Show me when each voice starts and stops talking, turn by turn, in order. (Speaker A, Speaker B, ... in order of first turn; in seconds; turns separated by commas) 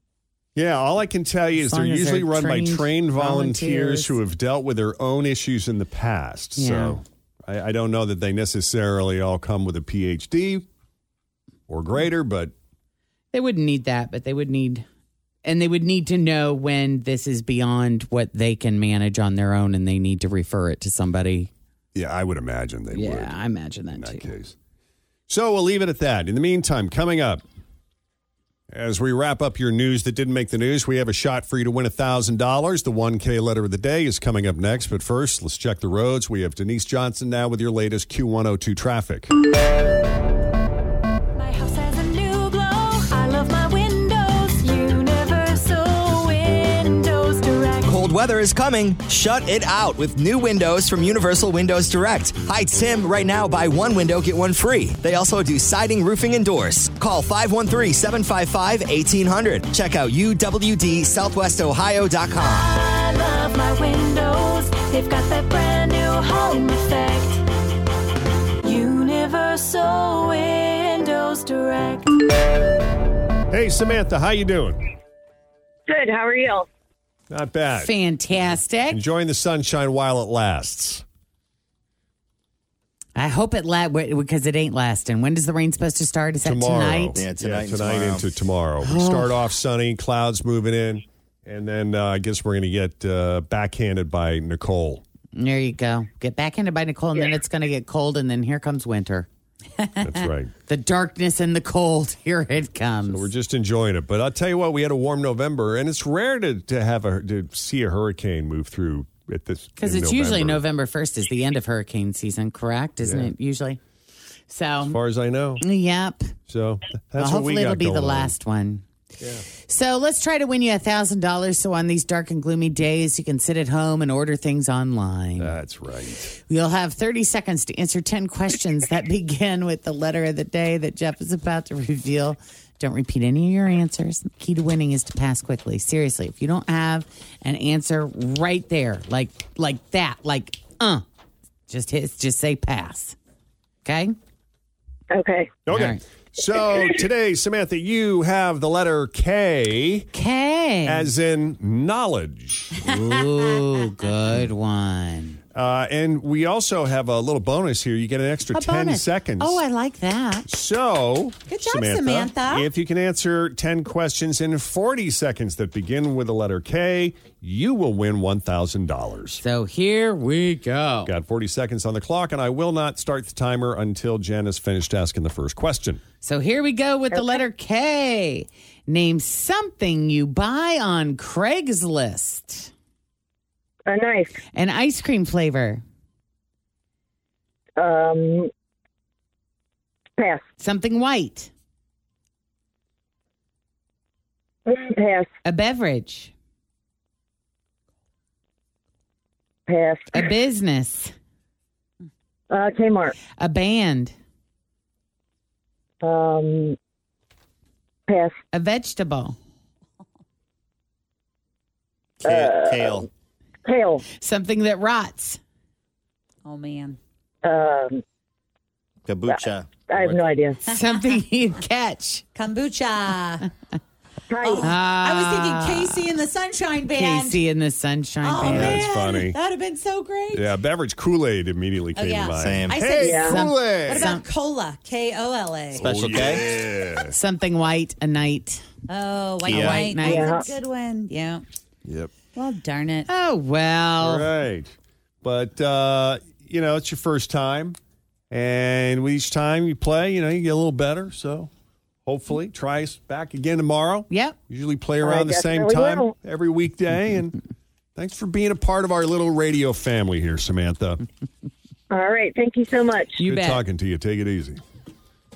Speaker A: 0.5-10.7, Speaker B: 1.6-4.2, Speaker B: 6.6-7.0, Speaker A: 11.7-12.5, Speaker B: 13.3-14.8, Speaker B: 15.4-21.5, Speaker A: 21.9-23.4, Speaker B: 22.9-24.3, Speaker A: 23.9-24.6, Speaker A: 25.3-27.4, Speaker A: 28.7-39.3, Speaker C: 41.3-48.0, Speaker D: 47.8-62.7, Speaker C: 62.4-67.4, Speaker C: 68.6-72.1, Speaker A: 73.5-74.8, Speaker E: 75.9-76.7, Speaker A: 77.3-77.9, Speaker B: 77.8-79.0, Speaker A: 78.9-81.0, Speaker B: 83.2-87.2, Speaker A: 86.4-95.0, Speaker D: 87.2-88.2, Speaker B: 88.8-89.3, Speaker B: 95.3-99.3, Speaker A: 100.0-100.5, Speaker B: 100.7-103.3, Speaker A: 103.1-110.6, Speaker B: 109.8-113.8, Speaker A: 113.0-113.3, Speaker B: 114.5-115.0, Speaker A: 114.8-115.6, Speaker B: 115.6-116.3, Speaker A: 116.5-118.3, Speaker B: 117.2-118.8, Speaker A: 119.2-119.4, Speaker B: 119.6-125.5, Speaker A: 125.4-126.3, Speaker B: 126.3-141.1, Speaker B: 141.7-143.2, Speaker B: 143.8-144.2, Speaker E: 145.1-145.6, Speaker A: 145.7-150.1, Speaker B: 145.7-146.0, Speaker B: 150.1-151.1, Speaker A: 150.8-153.0, Speaker B: 152.8-155.4, Speaker A: 155.5-159.6, Speaker B: 158.5-160.5, Speaker A: 160.5-169.4, Speaker F: 161.5-162.7, Speaker B: 169.4-171.1, Speaker A: 171.0-176.0, Speaker B: 176.2-182.7, Speaker E: 183.9-184.4, Speaker B: 184.5-185.8, Speaker E: 187.8-188.5, Speaker E: 190.2-190.4, Speaker B: 190.6-191.5, Speaker E: 194.7-195.3, Speaker B: 195.4-196.3, Speaker E: 199.7-200.3, Speaker B: 200.1-201.1, Speaker E: 202.5-203.1, Speaker B: 203.4-204.1, Speaker E: 206.0-206.8, Speaker E: 208.1-208.4, Speaker B: 208.5-209.3, Speaker D: 212.2-213.1, Speaker E: 212.2-213.1, Speaker E: 213.6-214.0, Speaker B: 214.2-215.4, Speaker F: 216.4-217.0, Speaker E: 217.4-218.0, Speaker D: 219.1-220.2, Speaker E: 219.3-220.6, Speaker B: 220.6-222.2, Speaker F: 222.3-223.5, Speaker E: 224.3-224.7, Speaker F: 224.4-227.4, Speaker B: 224.6-226.0, Speaker B: 226.9-228.8, Speaker F: 228.2-230.5, Speaker A: 228.4-229.4, Speaker A: 230.3-234.1, Speaker F: 231.9-236.1, Speaker D: 232.3-232.9, Speaker E: 233.0-233.3, Speaker B: 233.3-234.2, Speaker D: 235.7-236.5, Speaker A: 235.8-237.1, Speaker B: 237.1-238.6, Speaker F: 238.9-241.4, Speaker D: 239.4-239.9, Speaker B: 239.4-240.3, Speaker E: 240.0-240.5, Speaker F: 242.3-243.1, Speaker B: 243.1-244.3, Speaker A: 244.0-247.8, Speaker A: 248.3-251.5, Speaker A: 252.1-257.4, Speaker B: 254.1-254.3, Speaker E: 255.0-256.1, Speaker A: 257.9-261.0, Speaker E: 261.9-263.2, Speaker B: 263.2-263.6, Speaker A: 263.2-264.6